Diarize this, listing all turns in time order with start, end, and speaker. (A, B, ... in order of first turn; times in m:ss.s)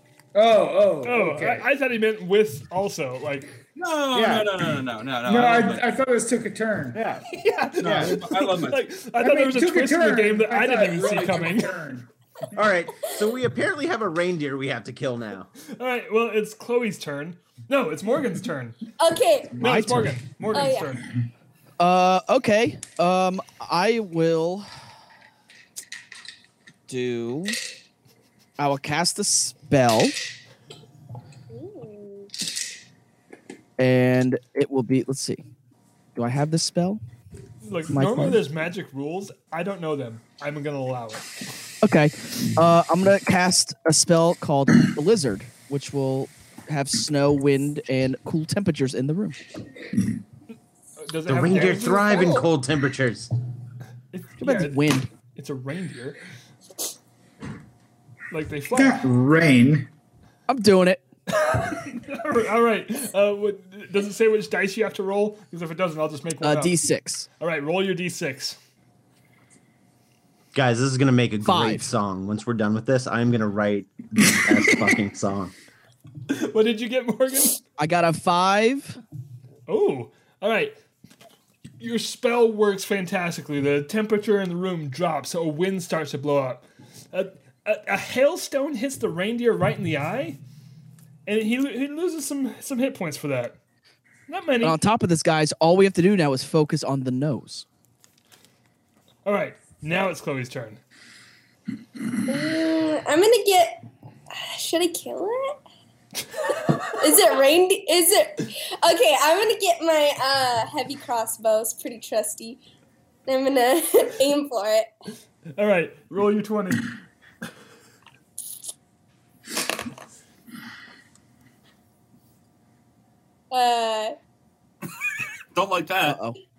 0:00.3-0:01.7 A
0:01.0-0:03.5 B
0:03.8-0:05.8 C
0:04.1-0:04.5 D
0:05.2-0:07.0 A
0:06.9-0:07.2 D
0:07.3-0:11.7 B
0:07.8-0:08.8 C
0:07.8-0:08.1 D
0:09.2-0:12.1 A
0:12.5-0:15.5 D
0:15.8-0:18.8 B
0:19.0-0:19.7 E
0:19.6-0:21.1 B
0:19.6-0:20.1 F
0:20.5-0:21.0 E
0:21.8-0:24.7 F
0:26.9-0:27.6 F
0:28.6-0:30.2 F
0:31.5-0:32.3 E
0:33.8-0:35.4 F
0:36.1-0:37.0 F
0:37.6-0:41.3 B
0:37.9-0:38.4 F
0:41.8-0:49.4 F
0:51.0-0:52.4 B
0:51.3-0:53.3 D
0:54.1-0:56.2 B
0:54.4-0:55.1 F
0:58.3-0:59.0 B
0:58.7-0:59.9 A
1:00.5-1:01.0 F
1:01.3-1:06.8 B
1:06.4-1:07.2 F
1:07.4-1:08.6 B
1:10.5-1:15.5 D
1:11.4-1:11.9 F
1:16.3-1:17.6 B
1:17.8-1:19.0 F
1:19.7-1:20.8 B
1:21.8-1:30.4 B
1:31.2-1:33.6 B
1:34.3-1:34.8 B
1:34.6-1:37.6 F
1:39.2-1:40.8 B
1:42.2-1:45.6 E
1:46.7-1:52.6 E
1:53.3-1:54.9 E
1:55.6-1:56.9 B
2:03.5-2:04.2 E
2:05.5-2:06.2 C
2:06.0-2:06.4 F